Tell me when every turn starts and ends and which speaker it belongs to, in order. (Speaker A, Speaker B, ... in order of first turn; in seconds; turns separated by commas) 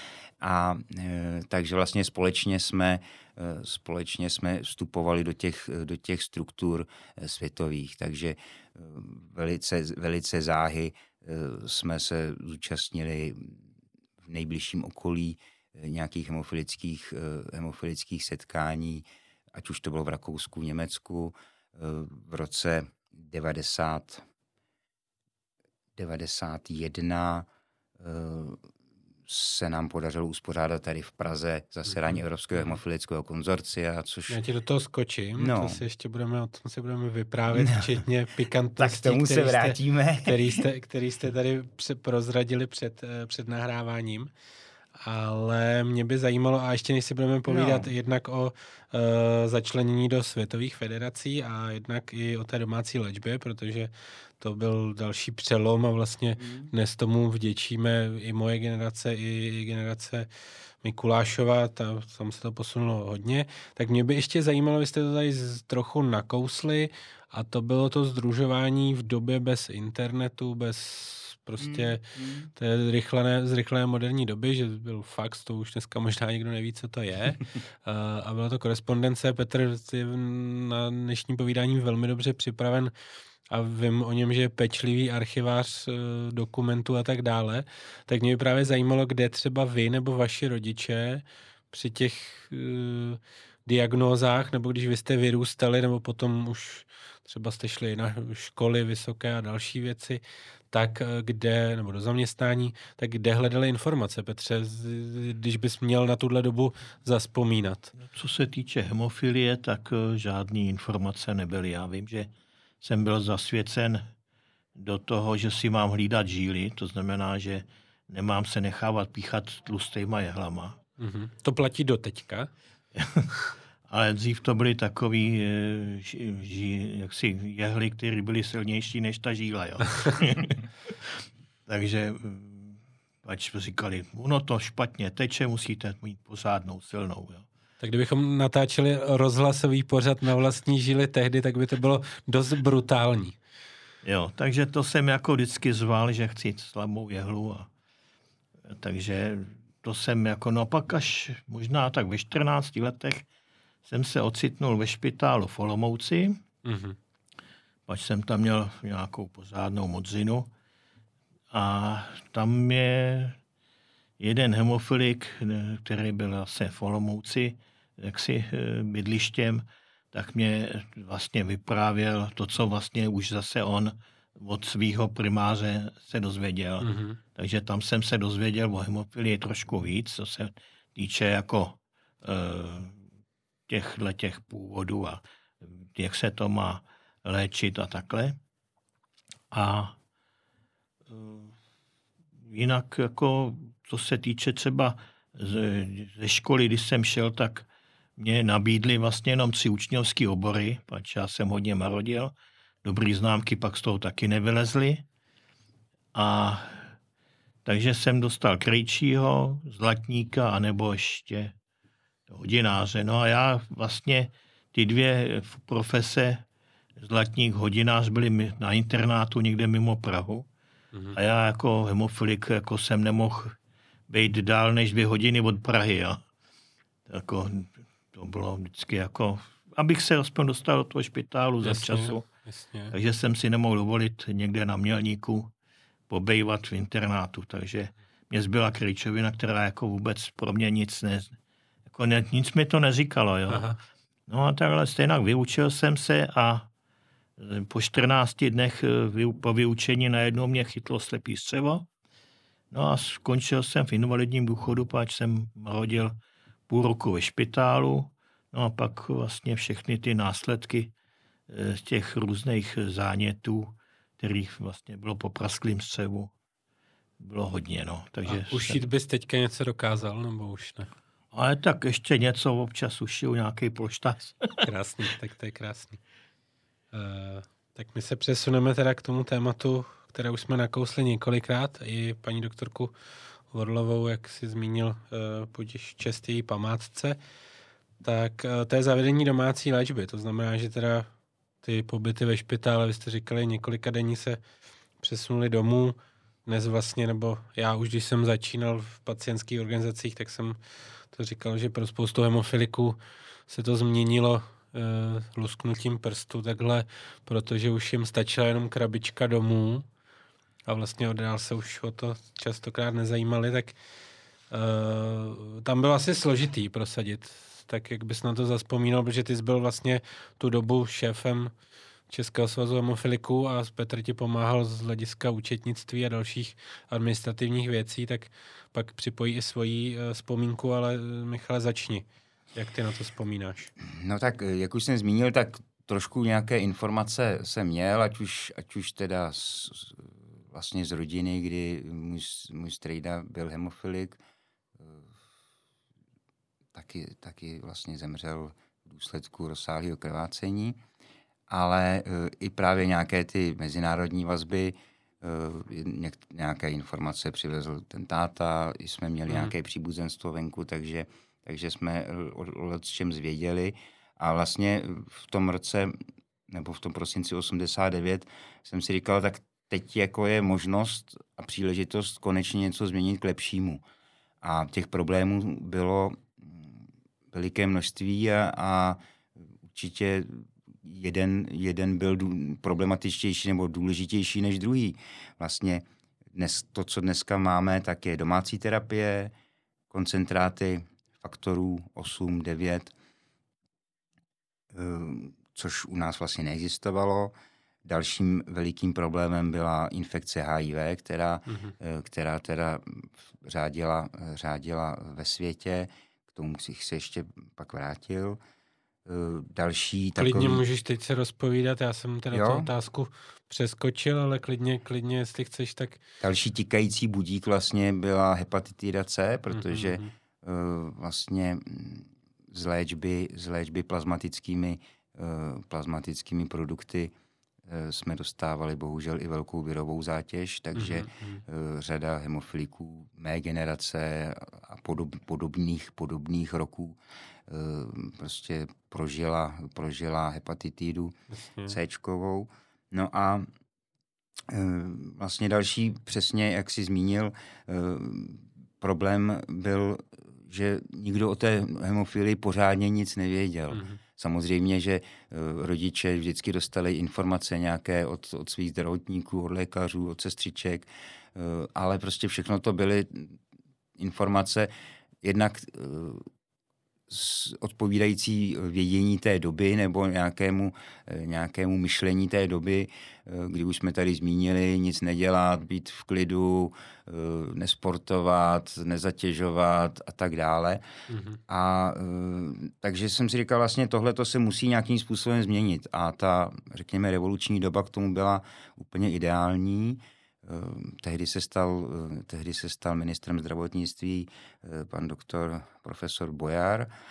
Speaker A: 0.4-13.6, Speaker A: 14.2-24.2, Speaker A: 25.9-27.5, Speaker A: 28.0-28.6, Speaker A: 29.3-34.4, Speaker B: 31.9-32.7, Speaker B: 34.3-44.3, Speaker A: 35.4-35.8, Speaker A: 37.5-38.0, Speaker A: 38.8-40.6, Speaker B: 45.0-60.3, Speaker A: 47.5-47.9, Speaker A: 56.4-56.7, Speaker B: 60.8-82.9, Speaker A: 71.6-72.5, Speaker B: 83.5-107.9, Speaker C: 108.0-112.3, Speaker C: 112.8-114.0, Speaker C: 114.8-120.8, Speaker B: 121.0-122.5, Speaker C: 123.0-123.3, Speaker C: 123.9-137.5, Speaker B: 137.8-143.4, Speaker C: 144.0-147.7, Speaker C: 148.7-153.3, Speaker C: 153.8-156.4, Speaker B: 156.6-157.0, Speaker C: 157.9-160.5, Speaker C: 161.5-163.4, Speaker C: 164.2-183.0, Speaker B: 176.8-177.2, Speaker C: 183.7-188.4, Speaker C: 189.5-190.0, Speaker C: 191.1-191.5, Speaker C: 192.5-197.7, Speaker C: 198.2-202.3, Speaker C: 202.8-205.0, Speaker C: 206.1-206.9, Speaker C: 207.7-211.5, Speaker C: 212.3-216.4, Speaker C: 217.0-220.5, Speaker C: 221.1-223.6, Speaker C: 224.1-226.2, Speaker C: 227.1-232.3, Speaker B: 231.6-232.9, Speaker C: 232.9-235.5, Speaker C: 236.1-241.4, Speaker C: 241.9-243.7, Speaker B: 243.5-243.8, Speaker C: 244.3-246.7, Speaker C: 247.4-251.9, Speaker C: 252.7-256.2, Speaker C: 256.7-260.9, Speaker C: 261.5-266.3, Speaker C: 267.2-268.8, Speaker B: 268.3-270.9, Speaker C: 271.3-274.7, Speaker B: 274.6-276.0, Speaker B: 276.9-282.9, Speaker B: 283.5-287.2, Speaker B: 288.0-291.1, Speaker B: 291.6-294.4, Speaker B: 295.0-300.6, Speaker B: 301.1-303.0, Speaker B: 303.5-309.9, Speaker B: 310.7-313.8, Speaker B: 314.5-321.5, Speaker B: 322.1-333.7, Speaker A: 333.8-344.2, Speaker A: 344.8-345.1, Speaker A: 346.7-350.8, Speaker A: 351.5-365.9, Speaker B: 359.3-359.5, Speaker A: 366.5-373.8, Speaker A: 374.4-379.0, Speaker A: 379.6-389.3, Speaker A: 389.9-392.9, Speaker A: 394.7-397.3, Speaker A: 397.8-408.4, Speaker B: 401.5-401.7, Speaker A: 409.1-410.6, Speaker B: 410.2-416.0, Speaker A: 412.3-412.7, Speaker A: 416.2-427.1, Speaker B: 419.5-420.1, Speaker A: 427.7-437.0, Speaker B: 430.7-431.4, Speaker A: 437.5-443.5, Speaker B: 441.3-441.8, Speaker A: 444.5-463.4, Speaker B: 453.7-454.0, Speaker A: 464.0-464.7, Speaker A: 465.2-466.2, Speaker A: 467.1-480.8, Speaker B: 481.1-481.4, Speaker A: 481.5-496.9